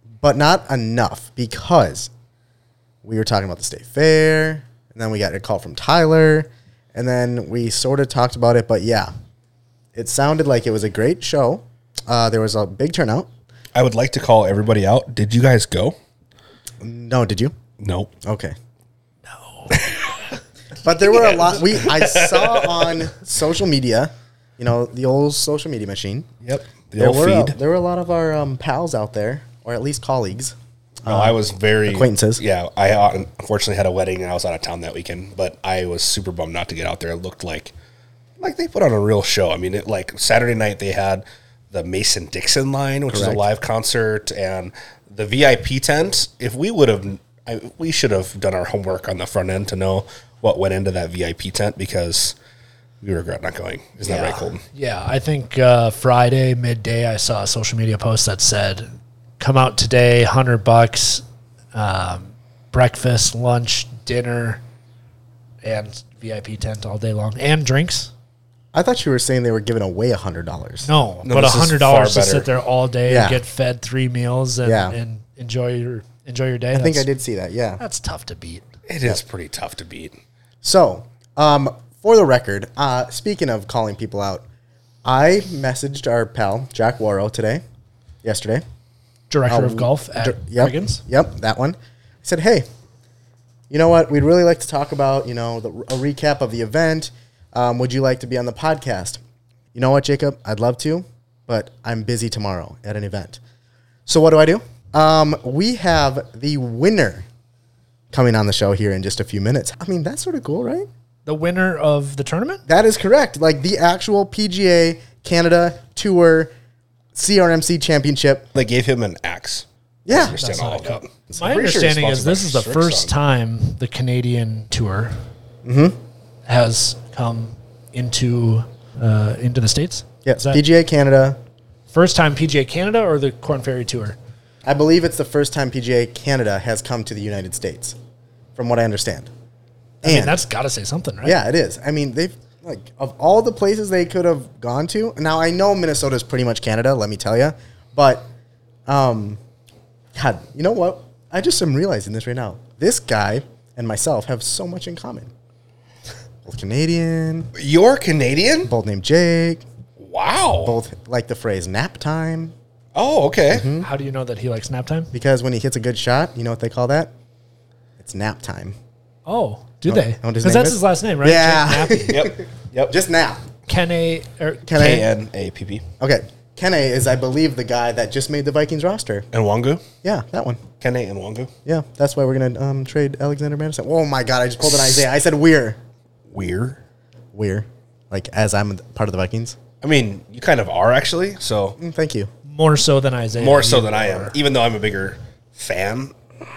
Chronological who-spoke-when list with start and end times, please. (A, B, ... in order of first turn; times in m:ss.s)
0:00.2-0:02.1 A
0:03.0-0:09.1 A
0:09.9-0:13.3 A
0:13.7-0:16.0 B
0:16.8-0:17.5 A
0:17.8-0:18.1 B
0:18.2-0:18.5 A
0:19.7-0:20.0 B
0:20.8-0:26.3 A
0:21.0-0:23.0 B
0:26.4-0:27.6 B
0:27.0-0:32.4 A
0:31.0-0:37.7 B
0:38.4-0:52.3 B
0:43.1-0:43.4 A
0:53.0-0:54.6 B
0:54.0-0:58.9 C
0:59.4-1:04.6 C
1:05.6-1:08.1 C
1:08.7-1:10.9 A
1:10.8-1:17.1 C
1:11.2-1:12.5 B
1:13.1-1:13.4 A
1:14.6-1:15.0 A
1:16.7-1:17.8 A
1:17.8-1:18.6 C
1:18.9-1:20.1 B
1:20.6-1:24.4 A
1:25.0-1:27.6 A
1:28.2-1:28.6 A
1:29.3-1:31.0 C
1:29.5-1:32.6 A
1:33.7-1:39.2 A
1:39.7-1:43.4 A
1:44.1-1:47.2 A
1:48.1-1:50.9 A
1:51.2-1:52.6 C
1:52.7-1:56.5 A
1:57.1-1:58.5 A
1:58.5-2:03.1 B
2:00.0-2:00.4 A
2:00.2-2:05.2 C
2:05.6-2:06.0 A
2:06.5-2:10.6 C
2:10.2-2:11.4 A
2:11.9-2:14.2 C
2:14.6-2:18.0 A
2:18.6-2:19.3 A
2:20.0-2:20.4 A
2:20.0-2:21.4 C
2:21.2-2:28.3 A
2:28.9-2:29.4 A
2:30.1-2:35.3 A
2:36.4-2:37.5 A
2:37.6-2:38.7 B
2:38.6-2:39.6 A
2:40.0-2:40.7 B
2:40.6-2:42.5 A
2:43.0-2:43.7 B
2:43.5-2:43.9 A
2:43.8-2:45.1 C
2:45.1-2:47.1 A
2:48.0-2:48.8 A
2:49.3-2:52.2 C
2:49.8-2:53.4 A
2:52.1-2:52.9 B
2:53.7-2:55.0 C
2:54.7-2:55.0 A
2:54.7-2:55.8 B
2:56.0-2:59.3 A
2:59.3-2:59.8 B
3:00.0-3:00.6 A
3:00.8-3:01.5 B
3:01.6-3:05.8 A
3:06.3-3:06.8 B
3:07.3-3:09.6 A
3:09.8-3:11.8 B
3:11.8-3:12.3 A
3:12.4-3:14.3 C
3:13.4-3:16.1 B